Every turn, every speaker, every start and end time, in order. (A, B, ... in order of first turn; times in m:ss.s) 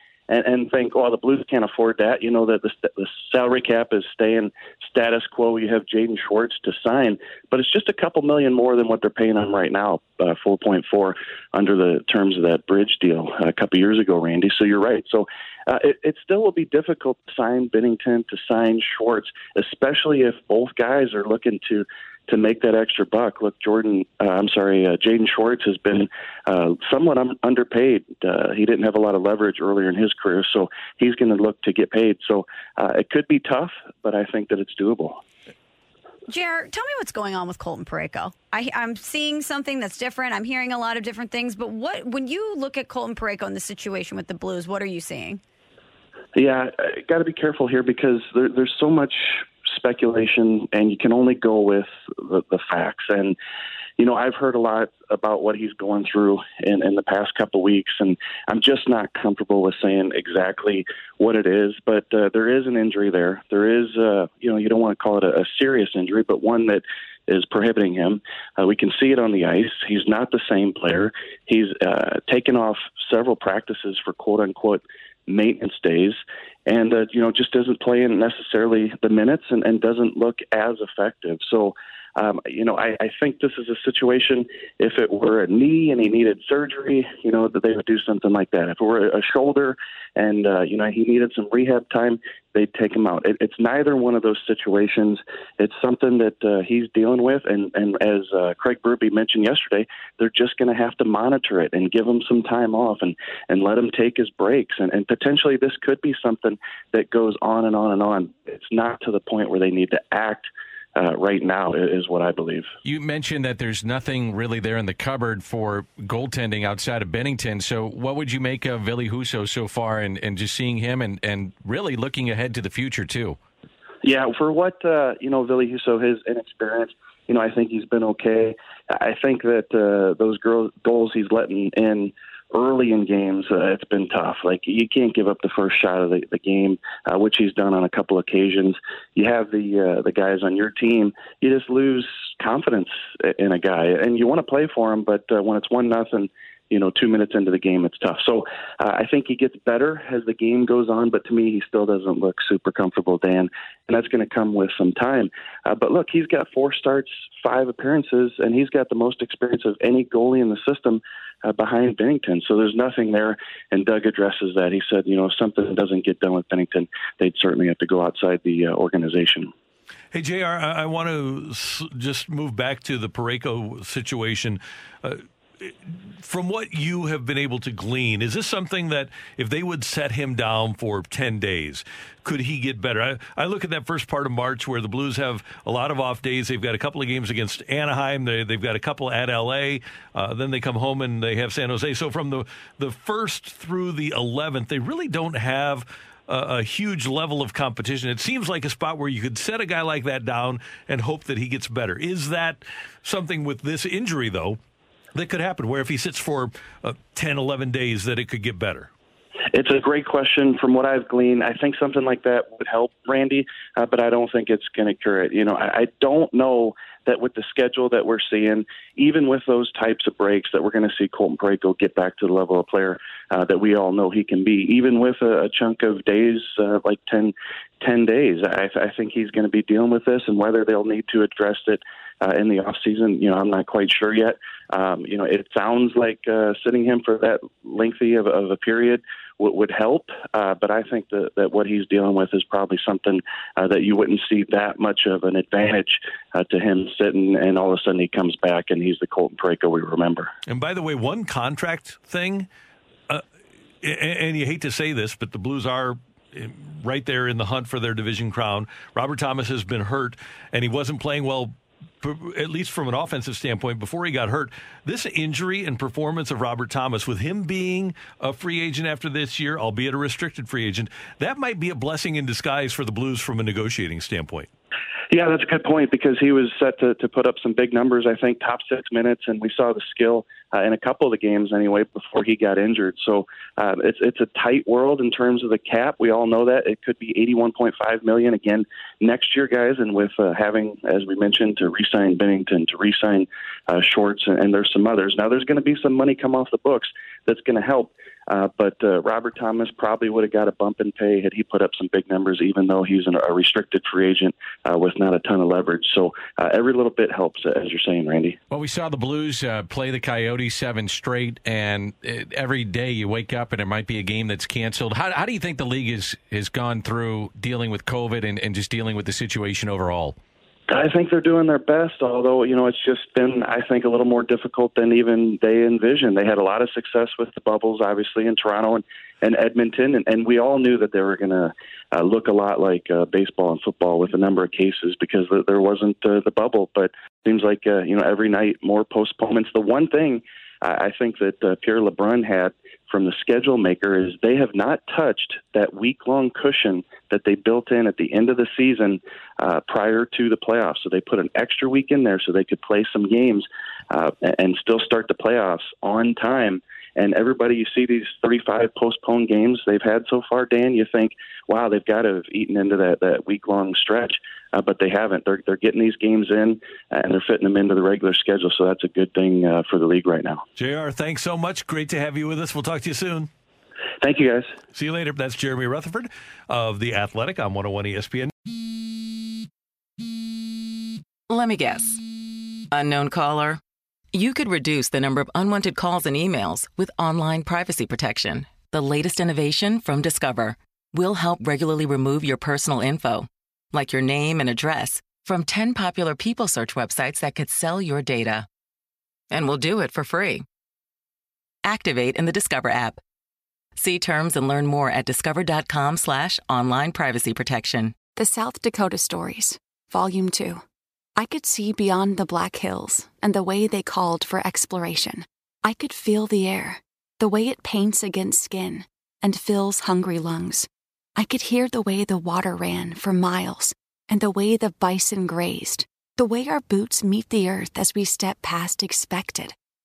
0:00.3-0:35.2 A
0:36.3-0:45.4 B
0:46.3-0:53.3 A
0:54.0-1:52.7 A
1:52.8-2:03.4 C
2:04.0-2:49.5 A
2:50.1-3:24.6 D
3:25.1-3:28.9 D
3:29.5-4:10.3 A
4:10.4-4:12.5 D
4:13.8-4:34.5 D
4:35.1-5:08.4 A
5:08.5-5:20.2 C
5:20.7-6:10.4 A
6:10.6-6:13.3 D
6:14.0-6:14.5 A
6:14.7-6:18.3 D
6:21.3-6:22.0 E
6:22.7-6:23.6 E
6:24.1-6:38.5 E
6:39.3-6:40.4 E
6:41.6-6:43.0 E
6:43.8-6:48.1 E
6:48.1-6:50.6 F
6:51.2-7:09.5 F